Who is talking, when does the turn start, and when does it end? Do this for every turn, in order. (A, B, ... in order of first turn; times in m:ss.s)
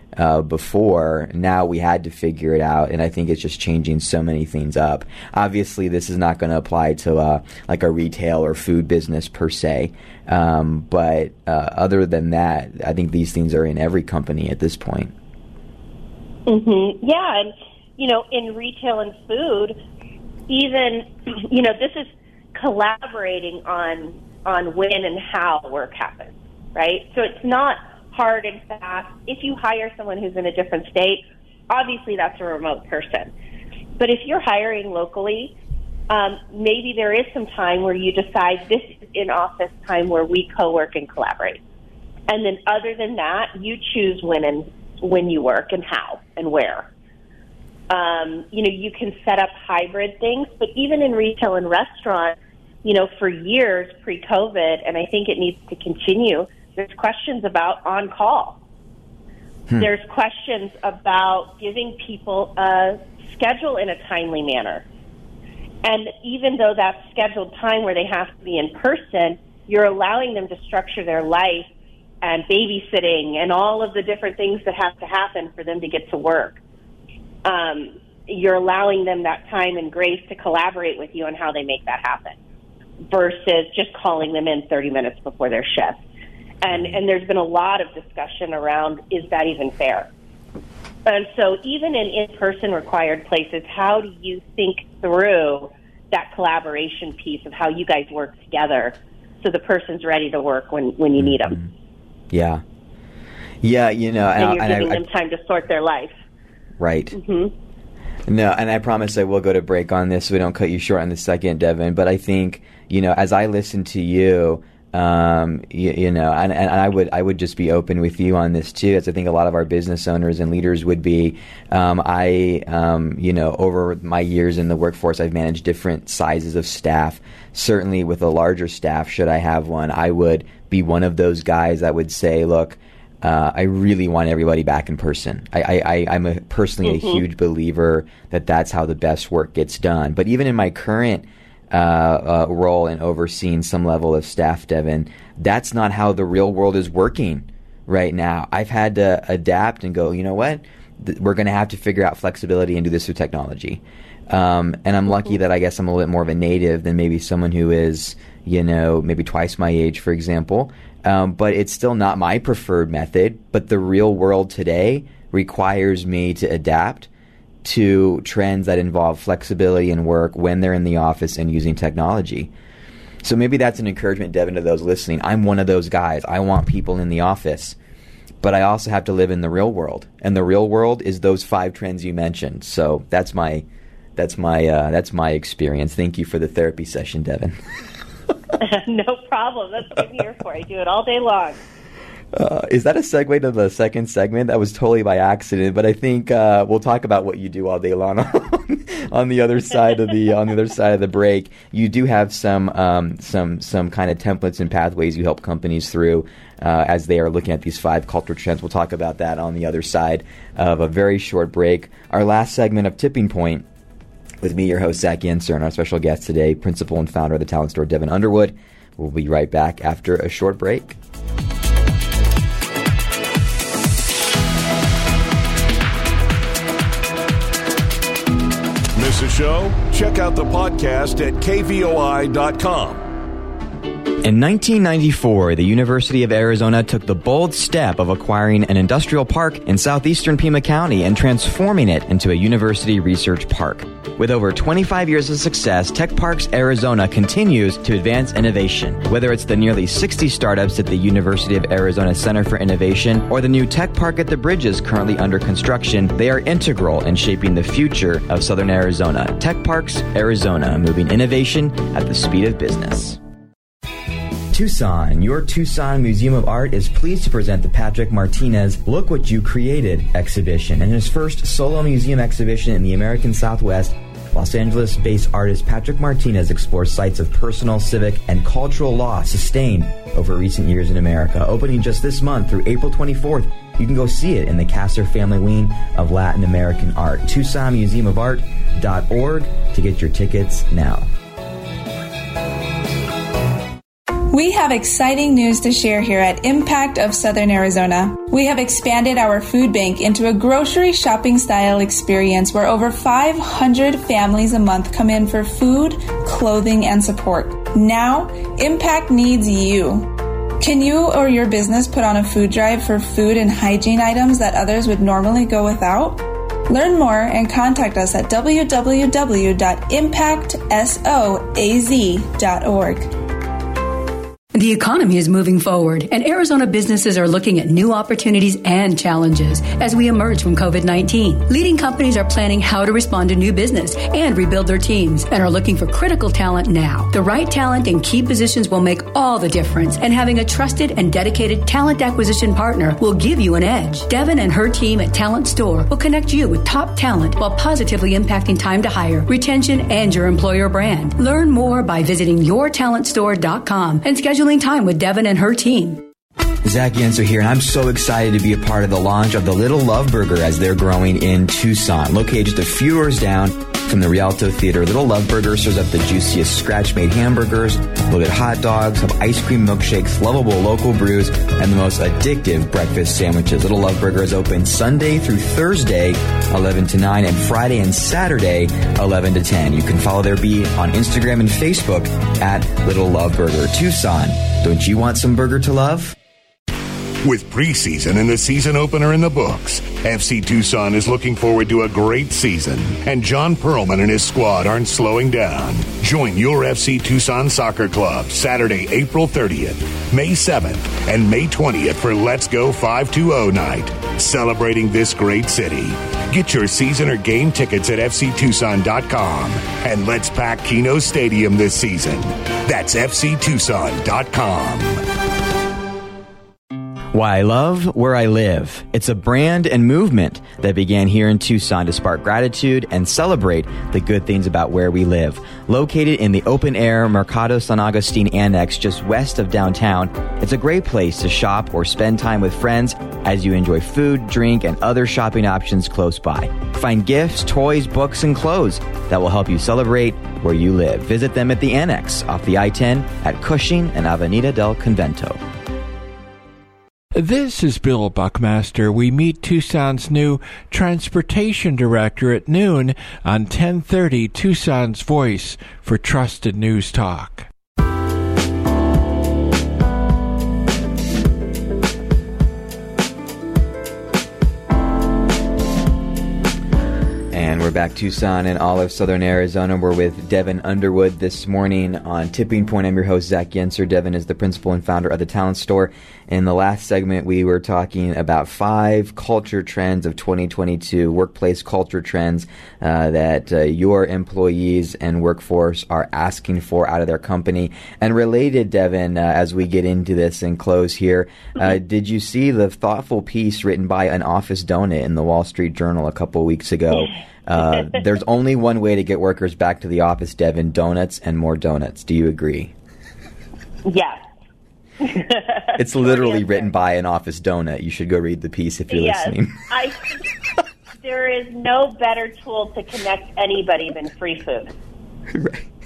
0:00.2-0:15.1 A
0:16.5-0:19.8 B
0:20.5-0:33.3 B
0:34.0-0:35.5 B
0:36.1-0:41.6 B
0:42.3-0:46.9 B
0:47.9-0:58.6 B
0:59.8-1:04.9 B
1:05.8-1:11.7 B
1:12.2-1:16.6 B
1:17.4-1:22.4 B
1:23.1-1:26.0 B
1:26.6-1:30.1 B
1:26.7-1:27.0 A
1:31.0-1:41.6 B
1:41.2-1:41.7 A
1:42.3-1:42.6 A
1:43.6-1:45.0 A
1:44.4-1:46.1 B
1:46.8-1:47.2 A
1:47.1-1:47.5 B
1:48.3-2:47.1 A
2:16.8-2:17.2 B
2:47.6-2:52.5 A
2:53.2-2:57.8 A
2:58.4-3:03.6 A
3:04.2-3:07.6 A
3:08.6-3:11.6 B
3:12.3-3:33.7 A
3:34.4-3:41.0 A
3:49.0-3:53.0 C
3:54.2-4:23.2 A
4:24.5-4:51.1 A
4:54.3-5:23.1 D
5:24.5-5:56.0 E
5:56.6-6:26.2 A
6:27.2-6:55.0 F
6:57.1-7:25.4 A
7:27.1-7:37.5 G
7:47.3-8:22.7 A
8:23.8-8:24.3 B
8:25.0-8:26.7 B
8:25.8-8:29.7 A
8:28.9-8:30.2 B
8:31.0-8:34.7 B
8:35.3-8:35.7 A